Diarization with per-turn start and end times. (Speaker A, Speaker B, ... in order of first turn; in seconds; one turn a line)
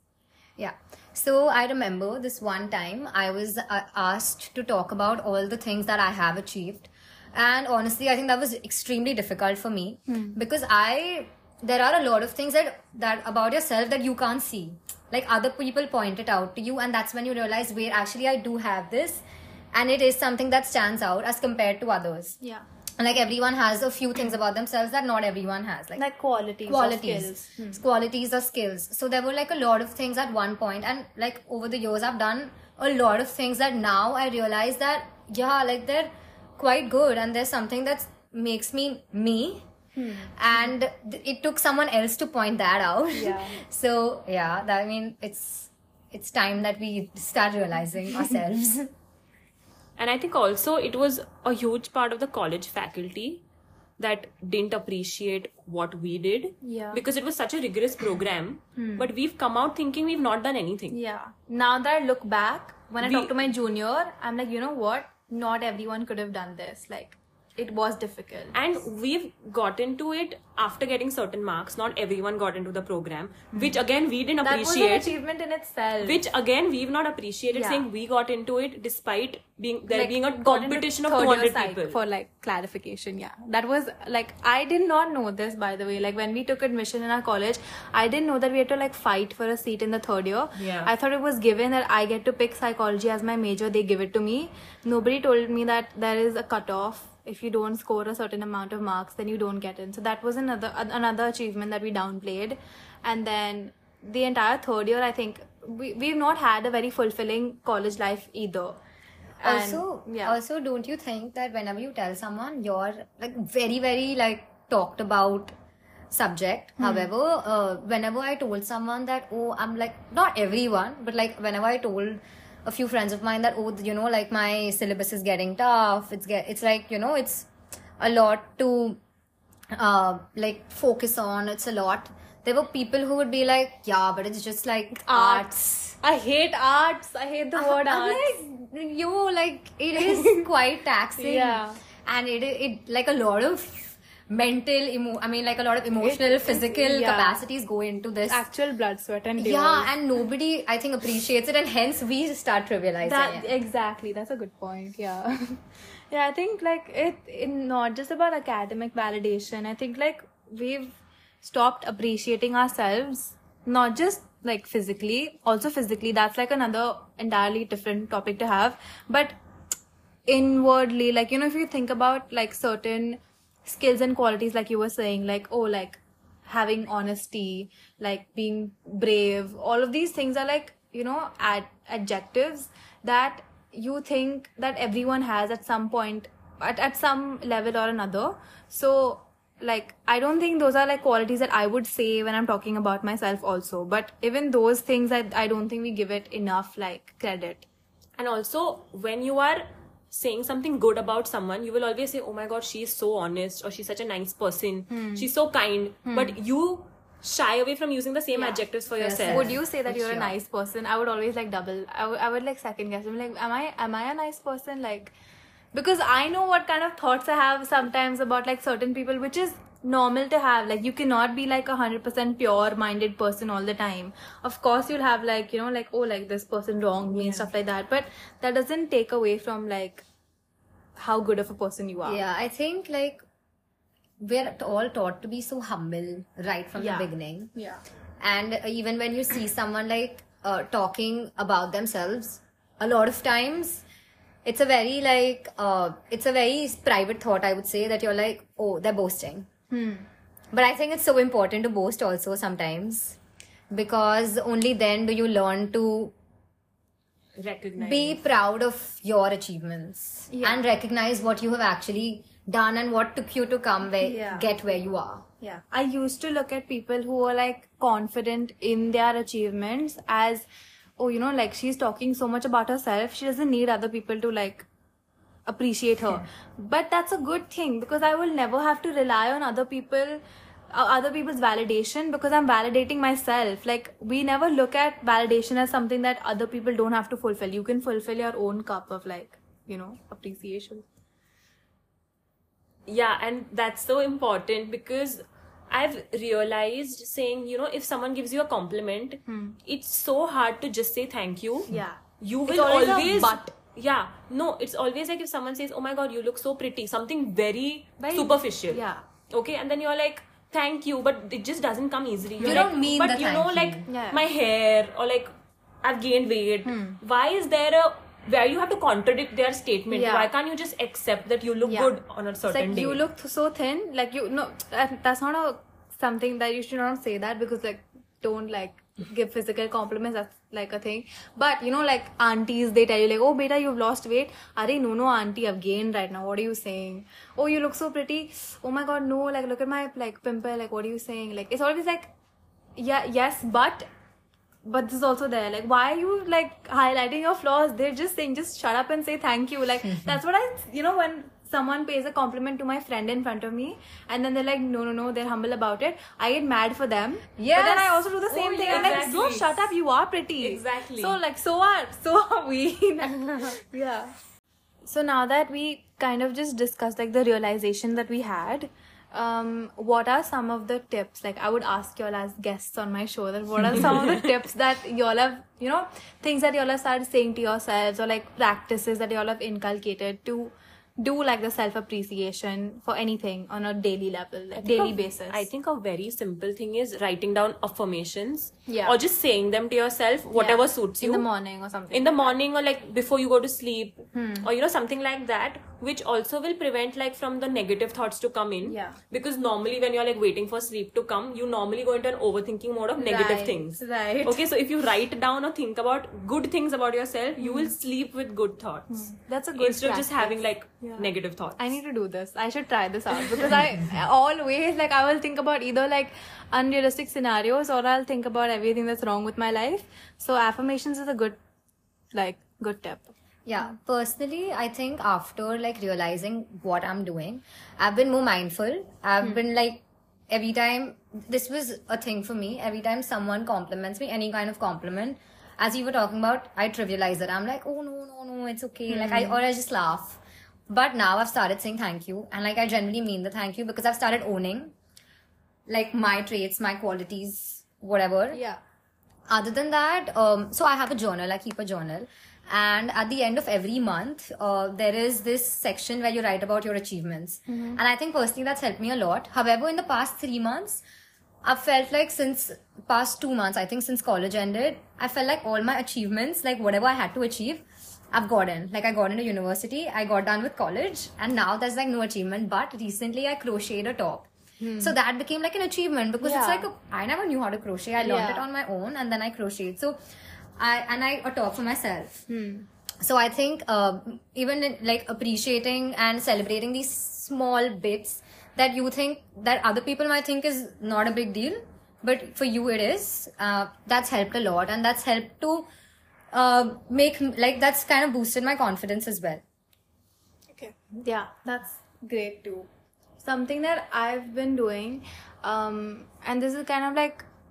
Speaker A: 0.6-22.4
Speaker B: 10.1-10.4
Speaker B: 22.4-22.6
Speaker A: 23.0-26.0
Speaker B: 25.9-27.8
Speaker A: 26.7-39.6
Speaker B: 39.9-40.7
Speaker A: 40.4-48.9
Speaker B: 43.1-43.6
Speaker C: 50.0-53.4
Speaker C: 54.0-61.0
Speaker B: 56.6-57.0
Speaker B: 58.8-59.1
Speaker B: 60.9-68.6
Speaker C: 63.0-63.3
Speaker C: 68.5-75.1
Speaker B: 74.4-76.2
Speaker C: 76.0-82.0
Speaker B: 77.5-77.8
Speaker B: 79.9-108.8
Speaker C: 90.5-90.9
Speaker B: 109.4-110.4
Speaker A: 109.4-115.5
Speaker A: 116.1-127.5
Speaker B: 116.8-117.1
Speaker A: 128.0-129.0
Speaker A: 129.7-135.9
Speaker B: 135.0-138.3
Speaker A: 137.6-148.4
Speaker B: 139.9-140.4
Speaker B: 141.2-141.8
Speaker B: 145.8-147.4
Speaker B: 148.3-149.9
Speaker A: 149.4-153.5
Speaker B: 153.0-169.3
Speaker B: 170.3-197.7
Speaker C: 198.2-209.6
Speaker B: 204.9-205.3
Speaker B: 206.1-206.4
Speaker B: 208.3-208.6
Speaker A: 208.9-210.3
Speaker B: 209.3-215.1
Speaker B: 215.7-230.0
Speaker B: 231.0-232.2
Speaker A: 232.1-233.2
Speaker A: 234.2-237.5
Speaker B: 236.8-237.8
Speaker A: 238.2-243.8
Speaker A: 244.4-249.5
Speaker B: 249.7-250.1
Speaker A: 250.5-253.2
Speaker A: 253.7-256.1
Speaker C: 257.4-258.2
Speaker A: 257.8-265.2
Speaker B: 260.3-260.6
Speaker B: 264.0-264.5
Speaker B: 265.4-270.5
Speaker B: 271.0-274.7
Speaker B: 275.5-290.9
Speaker C: 292.9-315.3
Speaker B: 299.3-299.6
Speaker B: 301.7-303.5
Speaker B: 308.0-309.0
Speaker A: 312.4-313.9
Speaker B: 312.4-312.7
Speaker B: 313.9-314.2
Speaker C: 315.8-323.0
Speaker B: 316.6-317.0
Speaker B: 319.9-320.3
Speaker B: 321.6-321.9
Speaker B: 322.5-342.1
Speaker B: 342.8-343.9
Speaker B: 344.6-364.1
Speaker A: 357.4-359.2
Speaker C: 358.7-359.7
Speaker C: 360.4-361.2
Speaker B: 364.8-385.5
Speaker C: 374.0-374.2
Speaker C: 384.6-391.3
Speaker B: 388.7-388.9
Speaker B: 390.4-392.3
Speaker C: 391.9-411.7
Speaker B: 394.1-394.5
Speaker B: 398.6-399.0
Speaker B: 403.0-404.4
Speaker B: 407.4-407.7
Speaker B: 408.9-421.4
Speaker B: 422.1-423.1
Speaker A: 423.4-444.7
Speaker B: 438.9-439.4
Speaker A: 445.7-448.4
Speaker B: 448.3-448.6
Speaker A: 449.3-460.8
Speaker B: 457.5-457.8
Speaker A: 461.4-479.9
Speaker B: 474.6-474.9
Speaker B: 476.2-476.7
Speaker B: 478.0-478.4
Speaker A: 480.6-482.2
Speaker B: 482.3-482.7
Speaker A: 483.0-495.7
Speaker A: 496.3-499.4
Speaker B: 500.5-502.7
Speaker B: 503.2-507.2